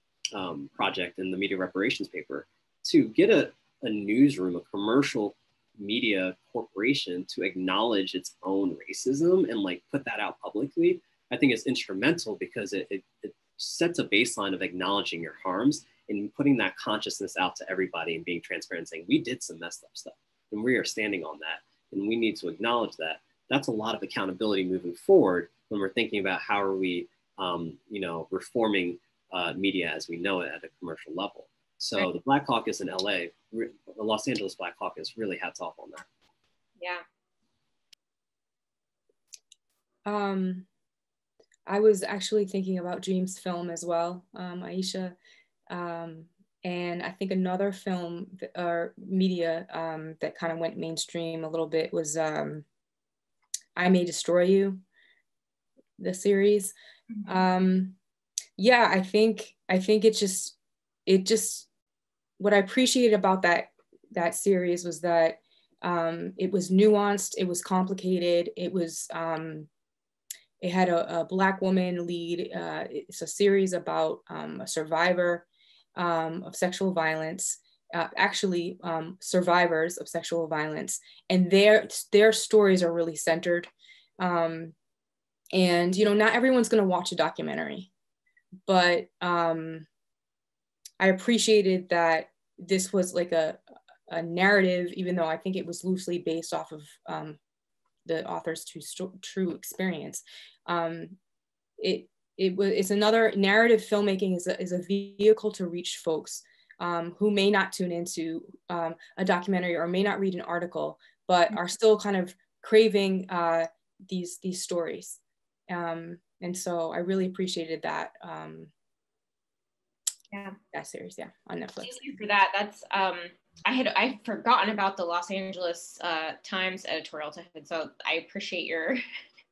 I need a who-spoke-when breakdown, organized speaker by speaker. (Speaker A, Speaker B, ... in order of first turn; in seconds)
Speaker A: 0.3-36.1
Speaker B: 36.8-37.0, 120.3-120.6, 121.8-129.0
Speaker C: 40.0-40.6, 41.6-45.1, 45.7-52.6, 53.8-54.8, 56.0-56.7, 57.2-58.0, 58.6-60.5, 61.1-61.7, 62.4-69.7, 70.6-75.4, 76.0-84.7, 85.5-87.9, 88.7-89.8, 91.0-97.4, 98.0-101.2, 101.8-118.7, 120.7-122.0